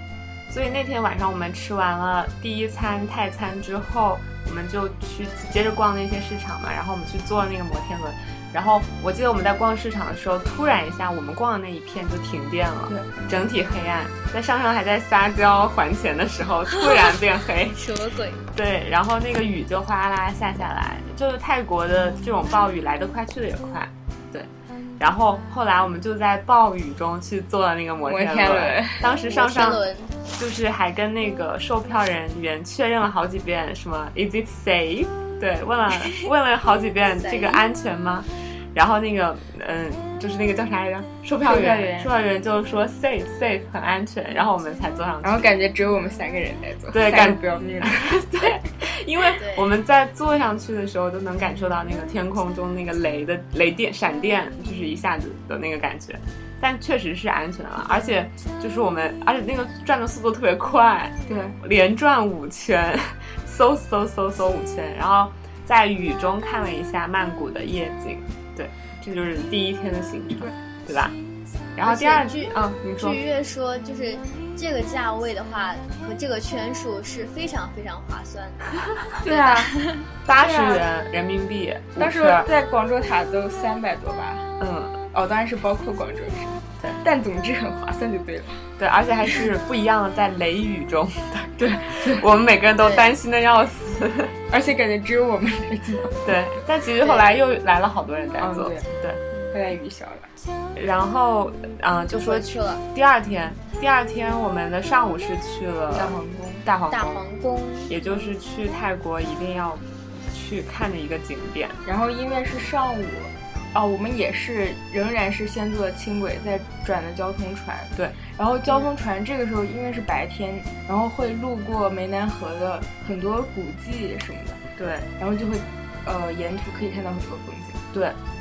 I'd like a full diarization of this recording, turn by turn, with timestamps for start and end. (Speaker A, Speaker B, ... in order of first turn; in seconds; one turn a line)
Speaker A: 0.5-17.8
Speaker B: 12.9-13.2
Speaker C: 17.7-18.4
Speaker A: 18.5-45.5
Speaker B: 28.1-29.1
Speaker C: 29.2-30.2
Speaker C: 37.2-37.6
Speaker B: 41.4-42.1
Speaker B: 45.2-48.5
Speaker A: 46.9-71.2
Speaker C: 49.4-49.7
Speaker B: 61.3-61.6
Speaker A: 71.8-73.2
Speaker C: 71.8-80.0
Speaker B: 79.2-79.8
Speaker A: 80.3-82.5
Speaker B: 80.4-80.9
Speaker B: 82.0-84.5
Speaker A: 84.6-85.0
Speaker B: 85.1-88.7
Speaker A: 88.8-94.3
Speaker B: 91.6-92.2
Speaker C: 92.8-93.1
Speaker B: 94.5-96.3
Speaker A: 96.2-99.2
Speaker C: 97.0-97.3
Speaker B: 98.4-98.9
Speaker B: 99.5-100.3
Speaker A: 100.8-107.2
Speaker C: 102.1-102.8
Speaker B: 105.9-106.7
Speaker C: 106.9-107.9
Speaker A: 107.9-111.8
Speaker B: 111.8-124.6
Speaker A: 124.8-125.1
Speaker B: 125.2-127.8